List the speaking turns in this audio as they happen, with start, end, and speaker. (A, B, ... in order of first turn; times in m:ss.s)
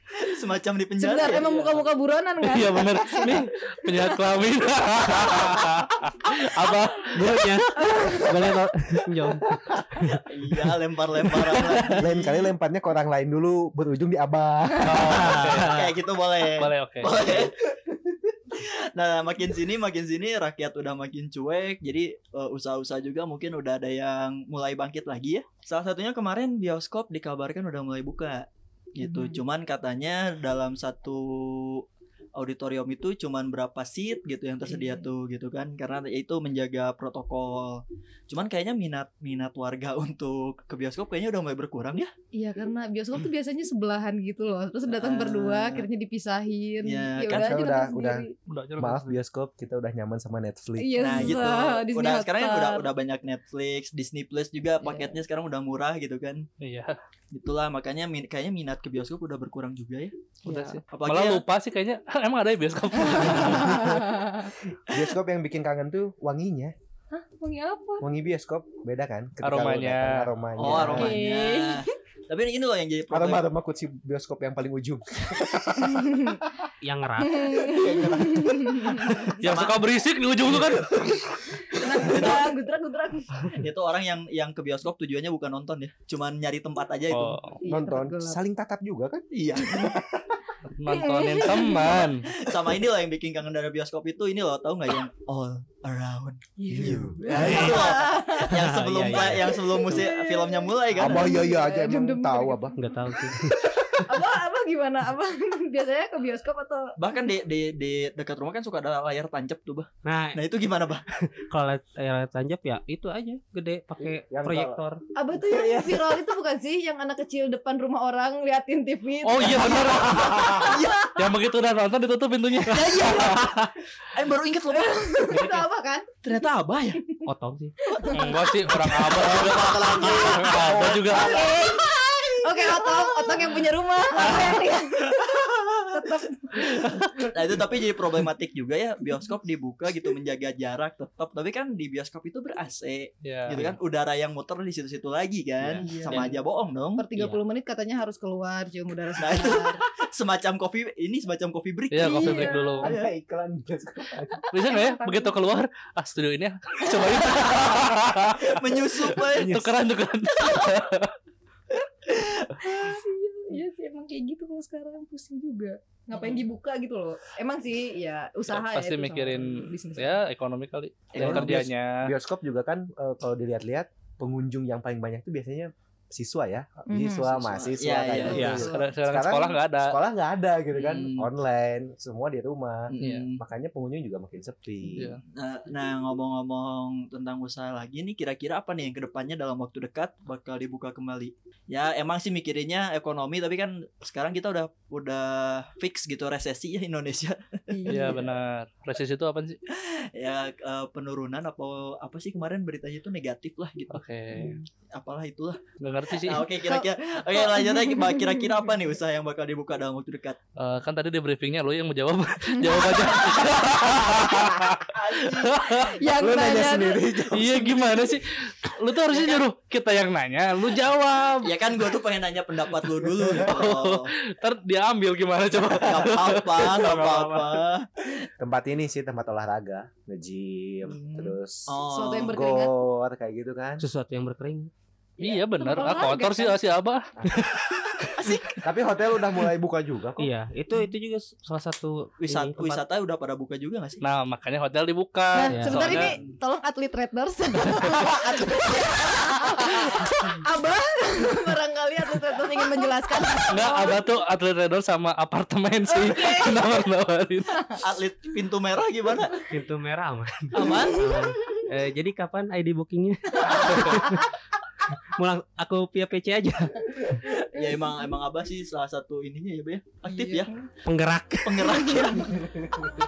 0:00.1-0:01.5 A
0:01.0-0:04.1 B
0:02.4-0:07.7 C
0:07.1-0:10.3 D
0:07.8-0:08.4 B
0:10.2-0:12.5 A
0:11.9-0:15.4 E
0:14.8-0:15.8 C
0:15.0-0:15.9 D
0:15.6-0:17.5 A
0:16.5-0:17.2 C
0:18.5-0:42.1 A
0:29.0-0:29.4 B
0:34.7-0:35.1 B
0:42.3-0:48.3 B
0:44.9-0:45.9 A
0:46.8-0:47.5 A
0:47.3-0:51.4 E
0:48.5-0:49.2 C
0:50.8-0:52.9 B
0:51.0-0:56.5 A
0:54.8-0:55.2 B
0:56.6-0:57.0 C
0:57.3-1:00.2 A
1:00.4-1:00.8 B
1:00.5-1:04.1 C
1:00.9-1:01.4 A
1:03.2-1:04.5 B
1:04.9-1:06.7 E
1:07.1-1:08.0 B
1:08.0-1:11.2 E
1:09.4-1:10.3 C
1:10.6-1:13.5 A
1:10.8-1:11.9 B
1:13.1-1:16.5 E
1:15.8-1:16.4 B
1:16.8-1:17.6 D
1:17.2-1:19.3 B
1:17.6-1:19.0 E
1:19.0-1:19.8 A
1:19.4-1:21.2 C
1:21.7-1:23.6 B
1:22.0-1:22.5 A
1:23.6-1:27.4 A
1:27.1-1:27.6 C
1:27.6-1:28.4 B
1:27.6-1:30.3 E
1:29.3-1:29.9 A
1:29.6-1:29.9 B
1:30.6-1:32.3 C
1:30.9-1:32.1 B
1:32.3-1:41.4 A
1:36.6-1:43.3 B
1:36.7-1:37.6 E
1:37.4-1:39.6 D
1:40.9-1:42.8 E
1:42.8-1:44.0 D
1:43.9-1:47.0 B
1:47.0-1:51.1 A
1:50.0-1:50.4 D
1:51.4-1:55.0 D
1:54.0-1:54.8 E
1:55.2-2:01.1 B
1:55.4-1:56.2 E
1:59.2-2:03.4 C
2:00.1-2:00.8 E
2:00.7-2:01.1 A
2:02.7-2:05.3 A
2:03.4-2:03.7 D
2:04.7-2:06.1 B
2:05.3-2:05.6 D
2:06.2-2:07.0 A
2:07.2-2:07.8 D
2:07.9-2:08.5 B
2:08.0-2:13.4 A
2:08.1-2:11.4 C
2:09.5-2:11.2 E
2:09.9-2:10.5 B
2:11.1-2:11.9 B
2:12.4-2:15.3 B
2:14.2-2:27.1 A
2:14.2-2:14.5 C
2:15.9-2:16.8 B
2:23.2-2:23.6 C
2:25.8-2:26.4 B
2:27.0-2:29.8 B
2:27.2-2:27.4 D
2:29.2-2:33.1 A
2:31.9-2:32.9 C
2:32.0-2:32.9 B
2:32.8-2:34.4 E
2:34.3-2:35.4 B
2:34.5-2:41.2 C
2:38.5-2:39.8 A
2:42.0-2:42.9 A
2:42.6-2:50.2 B
2:48.5-2:52.1 C
2:51.1-2:51.6 A
2:51.2-3:05.2 E
2:56.9-2:57.5 B
2:57.4-2:58.7 A
2:58.1-2:58.9 B
2:58.3-2:58.7 D
2:58.7-3:00.0 C
3:00.7-3:01.3 A
3:02.9-3:03.4 A
3:03.0-3:03.2 C
3:05.3-3:18.1 A
3:17.7-3:18.3 B
3:17.9-3:19.6 C
3:19.7-3:30.4 A
3:23.9-3:24.6 C
3:25.8-3:26.4 C
3:26.6-3:28.5 B
3:30.6-3:36.0 C
3:32.6-3:33.0 B
3:34.3-3:34.7 E
3:34.9-3:35.8 A
3:35.8-3:37.0 B
3:36.1-3:38.0 E
3:37.3-3:41.6 C
3:39.1-3:39.4 A
3:41.4-3:44.1 A
3:43.0-3:47.6 C
3:43.2-3:43.5 E
3:45.7-3:48.1 A
3:48.4-3:53.8 E
3:50.8-3:52.4 A
3:51.8-3:52.7 B
3:53.8-3:54.7 D
3:55.2-3:56.6 B
3:55.2-3:57.7 C
3:58.1-3:58.6 A
3:58.6-4:00.3 E
4:00.2-4:02.8 D
4:02.2-4:04.0 A
4:04.0-4:06.2 C
4:05.3-4:14.0 B
4:05.5-4:06.0 D
4:13.5-4:17.8 C
4:15.9-4:16.7 B
4:17.8-4:19.5 A
4:19.5-4:24.3 D
4:20.5-4:21.0 A
4:20.6-4:21.6 B
4:23.5-4:24.2 B
4:25.0-4:27.1 D
4:27.4-4:30.5 A
4:30.0-4:30.6 B
4:30.8-4:32.2 D
4:31.4-4:32.4 A
4:31.6-4:32.4 B